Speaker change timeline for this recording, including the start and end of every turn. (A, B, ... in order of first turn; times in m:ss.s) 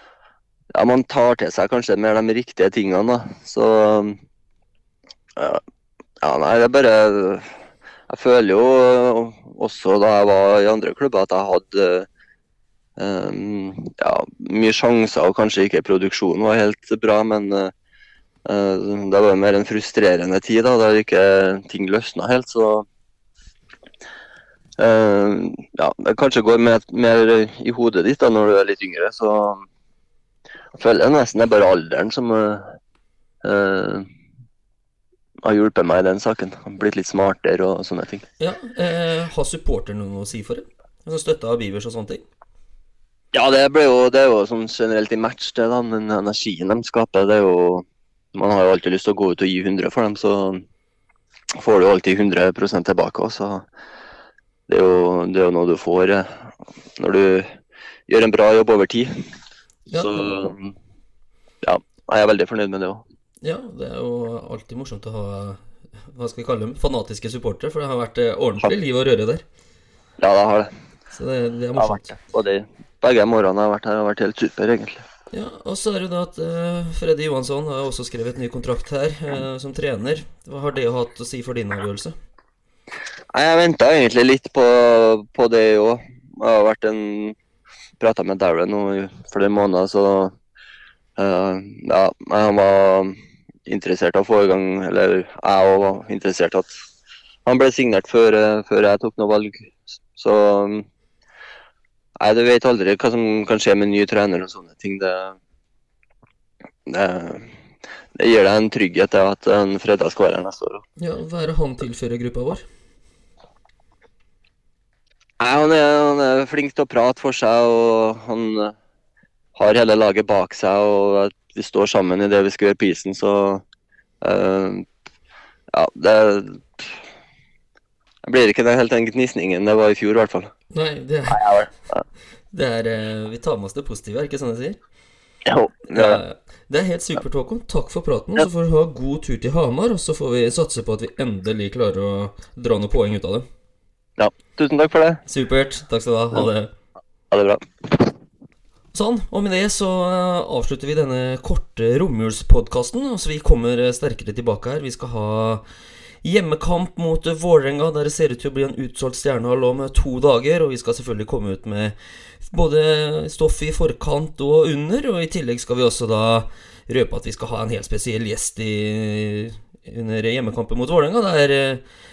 0:00.7-0:04.2 A
0:06.2-0:07.5 A
0:08.1-0:12.1 A
0:13.0-0:17.7 A
0:18.4-0:22.9 A
0:24.8-0:29.7 A
0:30.8-0:32.8 A
0:33.4-0:34.1 A
0:35.4-0:38.2 A
0:38.4-0:42.2 B
0:43.3-0:50.7 A
0:51.6-0:53.6 A
0:54.7-0:57.5 A
0:58.1-0:59.1 A
0:59.9-1:00.5 B
0:59.9-1:00.7 A
1:01.6-1:03.0 A
1:03.4-1:09.4 B
1:10.2-1:10.7 A
1:11.1-1:12.2 B
1:11.8-1:15.0 A
1:15.3-1:22.2 B
1:23.3-1:27.4 A
1:28.0-1:30.3 A
1:31.2-1:33.2 A
1:33.7-1:36.7 A
1:37.4-1:40.9 A
1:42.2-1:45.4 A
1:46.9-1:47.5 A
1:48.2-1:50.8 A
1:51.0-1:52.6 B
1:55.4-1:58.7 A
1:59.6-2:03.6 A
2:04.2-2:04.9 A
2:05.7-2:06.8 A
2:08.2-2:10.5 A
2:10.7-2:11.5 B
2:11.3-2:12.0 A
2:12.5-2:14.8 B
2:15.4-2:16.2 A
2:15.9-2:23.4 B
2:24.2-2:25.2 A
2:25.3-2:26.7 B
2:27.3-2:28.1 A
2:28.9-2:35.6 B
2:36.2-2:51.8 B